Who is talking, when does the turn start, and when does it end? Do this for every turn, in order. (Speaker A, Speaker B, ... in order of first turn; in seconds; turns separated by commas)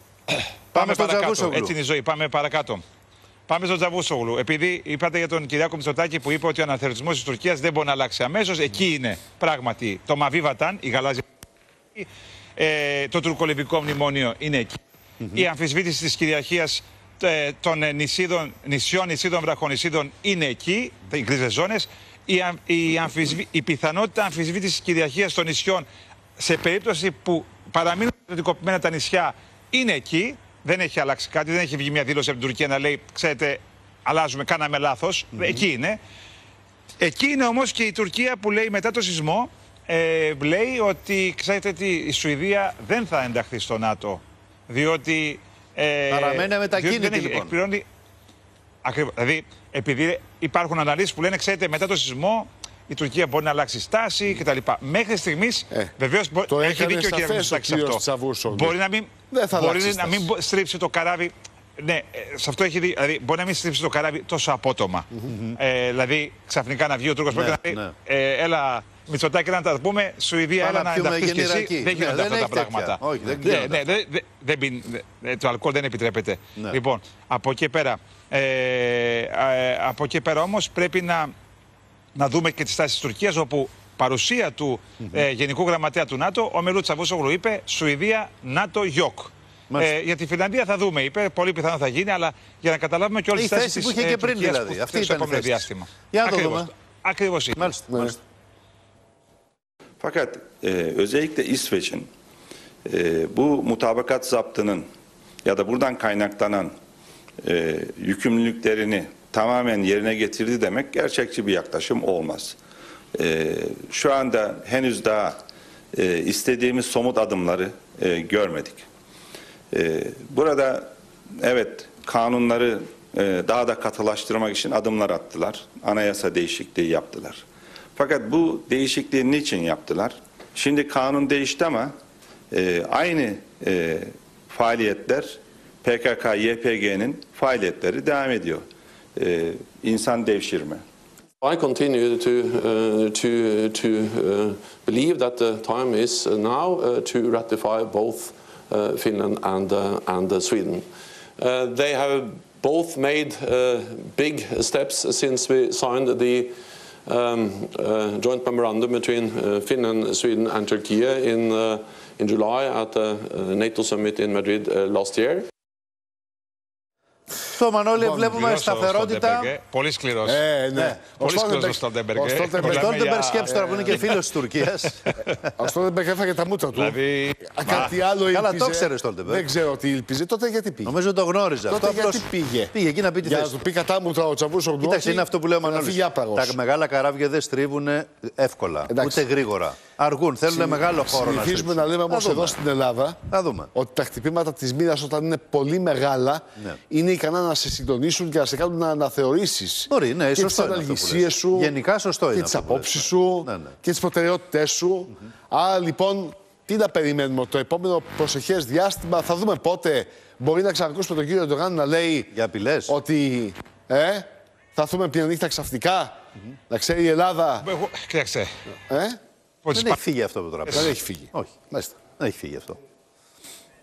Speaker A: 0.3-2.8, Speaker B: 0.7-1.7, Speaker A: 3.5-11.2, Speaker A: 11.9-25.9, Speaker A: 26.4-36.0, Speaker A: 37.0-47.8, Speaker B: 46.1-47.5, Speaker A: 48.8-81.3, Speaker C: 56.5-58.8, Speaker C: 59.3-60.3, Speaker B: 67.3-67.9, Speaker B: 70.6-73.8, Speaker A: 82.1-97.7, Speaker B: 93.3-96.7, Speaker B: 97.5-98.2, Speaker D: 100.0-102.1, Speaker D: 102.8-104.8, Speaker D: 105.4-106.7, Speaker D: 107.4-112.6, Speaker D: 113.1-115.4, Speaker D: 115.9-118.8, Speaker D: 119.7-127.4, Speaker D: 128.0-131.9, Speaker D: 132.5-138.6, Speaker D: 139.2-140.8, Speaker E: 141.4-165.5, Speaker B: 167.5-169.5, Speaker A: 168.2-170.4, Speaker C: 170.2-172.9, Speaker B: 170.7-171.0, Speaker A: 171.2-173.9, Speaker B: 172.6-175.0, Speaker C: 173.5-174.1, Speaker C: 175.6-177.0, Speaker A: 176.8-177.9, Speaker C: 177.5-180.9, Speaker B: 178.3-179.5, Speaker B: 180.8-183.7, Speaker C: 181.7-182.7, Speaker C: 183.2-186.6, Speaker B: 184.8-192.6, Speaker C: 188.9-189.2, Speaker C: 190.5-193.2, Speaker B: 193.3-193.7, Speaker C: 193.7-201.7, Speaker B: 199.9-203.8, Speaker C: 202.3-212.3, Speaker B: 212.3-212.9, Speaker C: 212.9-216.2, Speaker C: 216.7-217.7, Speaker A: 217.6-218.5, Speaker C: 218.9-219.2, Speaker A: 219.6-220.0, Speaker B: 219.7-221.5, Speaker A: 220.7-220.9, Speaker C: 220.7-222.0, Speaker B: 222.2-222.8